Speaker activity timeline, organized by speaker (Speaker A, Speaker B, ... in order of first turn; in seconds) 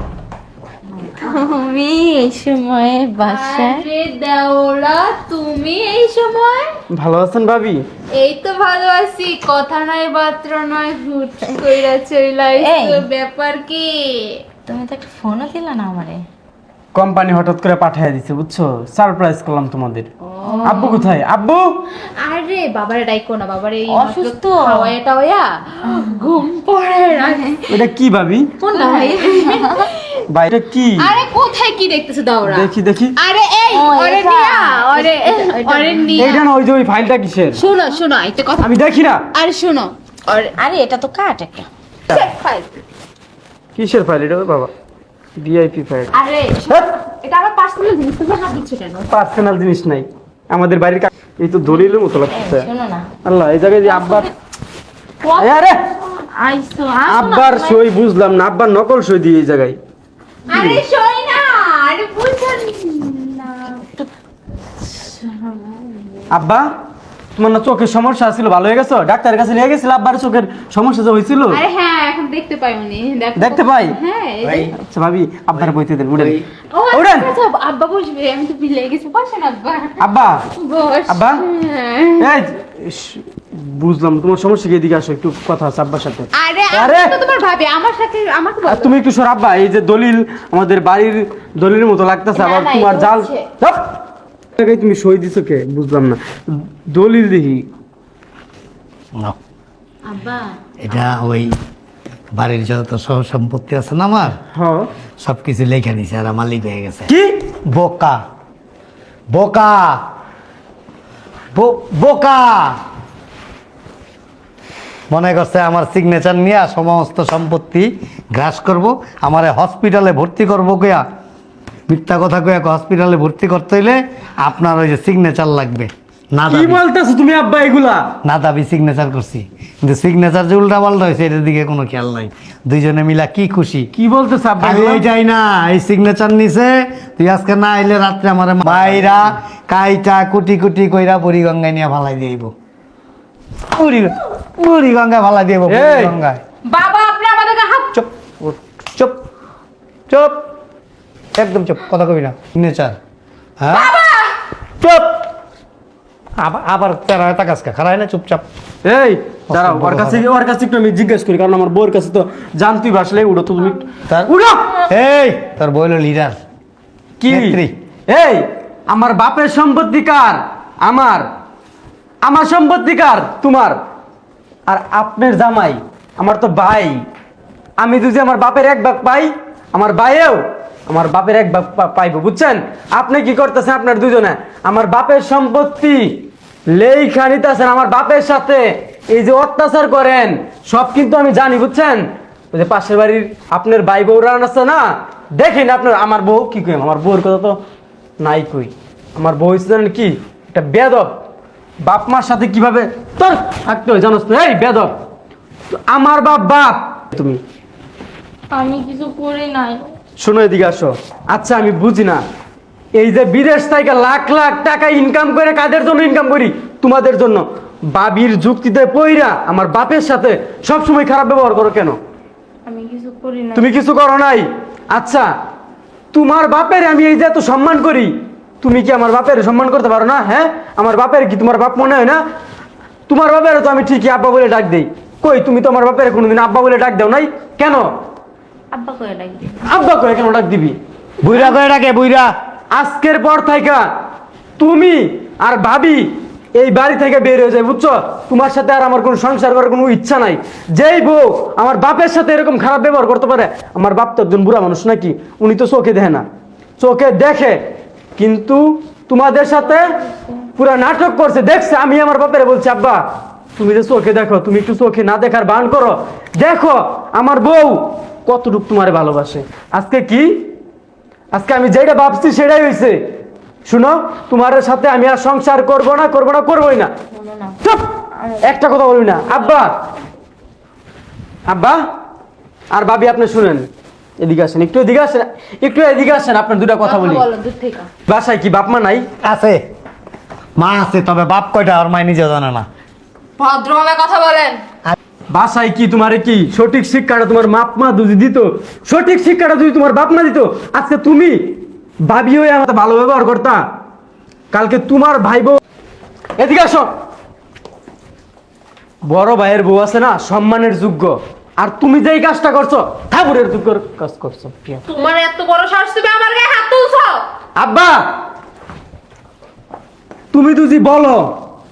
Speaker A: 1.0-1.5, 3.2-6.7, 8.1-14.4, 20.3-21.2, 22.1-27.8, 28.7-30.2, 31.0-36.4, 37.5-38.7, 39.3-40.5, 42.1-42.7, 46.1-49.1, 60.5-63.8, 71.5-74.7, 76.7-80.0, 80.5-82.3, 86.3-88.9, 92.3-93.5, 146.6-147.9, 153.7-154.3, 286.8-287.9, 293.4-294.6, 314.9-317.2
Speaker B: 1.1-3.8, 12.6-13.0, 14.7-16.2, 20.4-20.9, 23.9-24.9, 28.6-29.8, 33.7-36.3, 40.5-41.7, 51.7-53.1, 53.8-54.3, 55.2-55.5, 56.1-57.8, 63.8-64.1, 64.8-65.8, 100.1-100.5, 208.5-209.9, 222.7-223.7, 238.7-239.7, 259.5-260.4, 277.1-277.6, 278.2-278.5
Speaker C: 6.9-7.8, 16.9-20.1, 20.6-21.8, 27.7-28.5, 30.3-31.1, 32.4-33.1, 36.2-37.6, 38.6-39.2, 43.7-44.7, 45.4-46.1, 49.1-52.7, 53.2-54.3, 55.4-55.8, 57.1-59.8, 60.5-60.8, 66.3-66.7, 67.3-71.6, 73.3-74.0, 74.7-77.3, 80.0-80.5, 81.1-81.4, 82.2-87.1, 88.7-93.9, 94.6-97.7, 104.5-104.9, 107.1-107.4, 126.5-128.1, 133.9-135.0, 138.7-139.2, 145.7-146.1, 158.8-164.8, 167.2-171.3, 172.2-173.8, 174.7-177.0, 177.8-197.6, 198.2-201.1, 201.8-204.9, 205.7-207.4, 210.2-212.2, 212.9-222.0, 223.6-225.3, 226.1-232.2, 233.1-237.9, 239.7-240.8, 242.7-243.9, 244.6-256.2, 256.8-257.6, 258.2-259.9, 260.6-263.0, 263.6-270.4, 271.3-273.1, 273.6-276.9, 277.6-277.9, 278.4-279.8, 281.5-281.8, 282.7-283.7, 284.2-287.3, 288.1-289.1, 295.3-303.6, 304.5-305.6, 306.4-306.9, 309.0-314.8, 317.6-318.1, 320.3-321.3
Speaker D: 76.2-76.4, 100.8-101.6, 102.3-104.4, 105.2-107.1, 107.7-108.2, 109.3-110.0, 111.5-112.8, 115.1-121.0, 121.9-126.8, 128.2-133.9, 134.6-142.5, 143.7-146.4, 147.9-149.2, 150.1-150.5, 151.3-153.0, 153.6-153.9, 156.4-158.4, 159.5-160.2, 164.1-166.4, 167.3-167.7, 241.2-242.3, 289.2-289.6, 290.6-292.7